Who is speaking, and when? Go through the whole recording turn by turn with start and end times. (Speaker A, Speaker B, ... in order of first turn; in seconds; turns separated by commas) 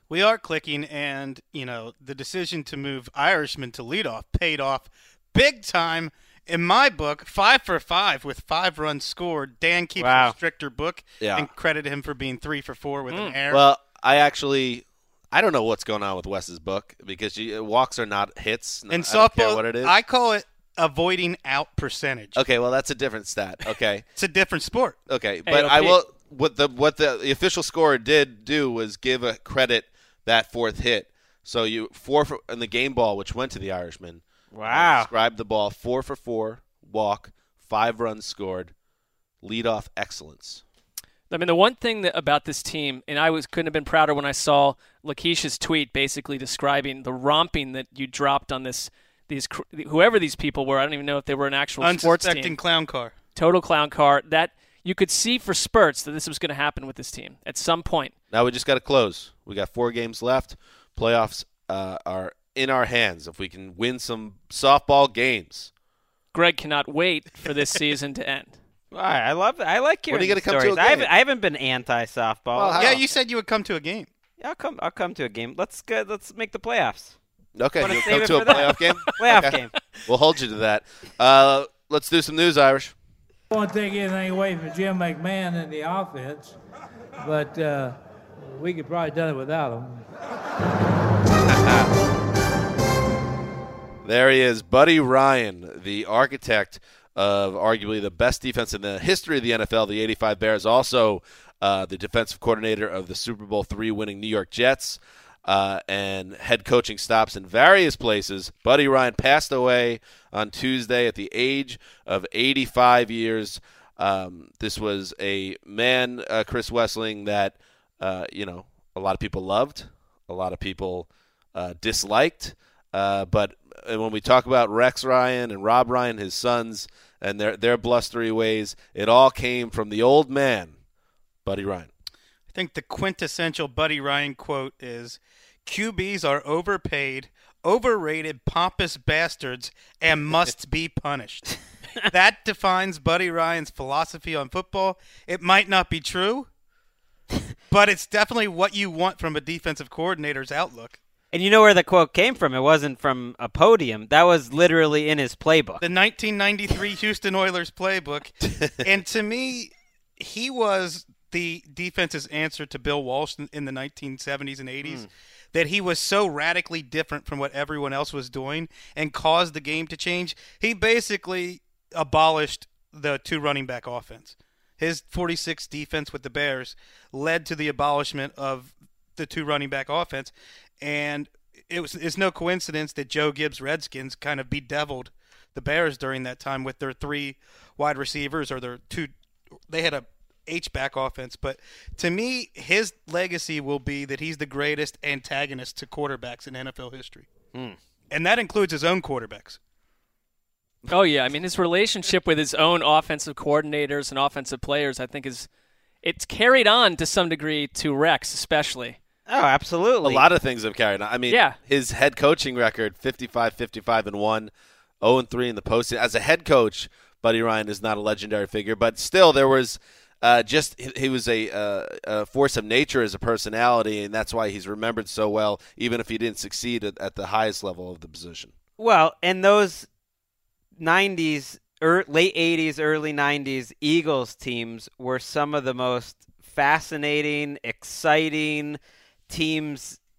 Speaker A: 0.1-13.7, Speaker B: 10.0-10.3, Speaker C: 11.2-11.5, Speaker D: 13.1-13.4, Speaker C: 13.5-19.9, Speaker A: 18.9-22.4, Speaker C: 22.4-24.0, Speaker A: 24.1-25.0, Speaker C: 25.1-38.7, Speaker D: 25.4-26.0, Speaker B: 34.5-35.1, Speaker C: 39.4-40.6, Speaker D: 41.3-52.6, Speaker A: 51.8-53.1, Speaker D: 53.3-58.1, Speaker C: 58.3-65.7, Speaker D: 66.3-68.5, Speaker B: 68.9-73.0, Speaker C: 70.1-71.1, Speaker C: 72.5-73.0, Speaker A: 72.8-74.1, Speaker B: 74.4-77.2, Speaker C: 77.5-82.9, Speaker B: 77.8-79.7, Speaker D: 78.3-79.5, Speaker E: 83.5-86.6, Speaker E: 87.2-90.1, Speaker C: 91.4-91.9, Speaker C: 94.0-130.8, Speaker C: 131.4-131.9, Speaker A: 132.5-141.6, Speaker A: 142.1-146.5, Speaker A: 147.7-151.0, Speaker B: 151.3-155.8, Speaker A: 155.8-189.1, Speaker C: 158.4-158.7, Speaker A: 189.7-197.3, Speaker A: 198.1-199.6, Speaker D: 200.9-205.5, Speaker D: 206.0-209.0, Speaker B: 209.3-210.2, Speaker C: 210.0-228.5, Speaker D: 211.3-211.6, Speaker B: 228.8-229.9, Speaker B: 230.8-240.0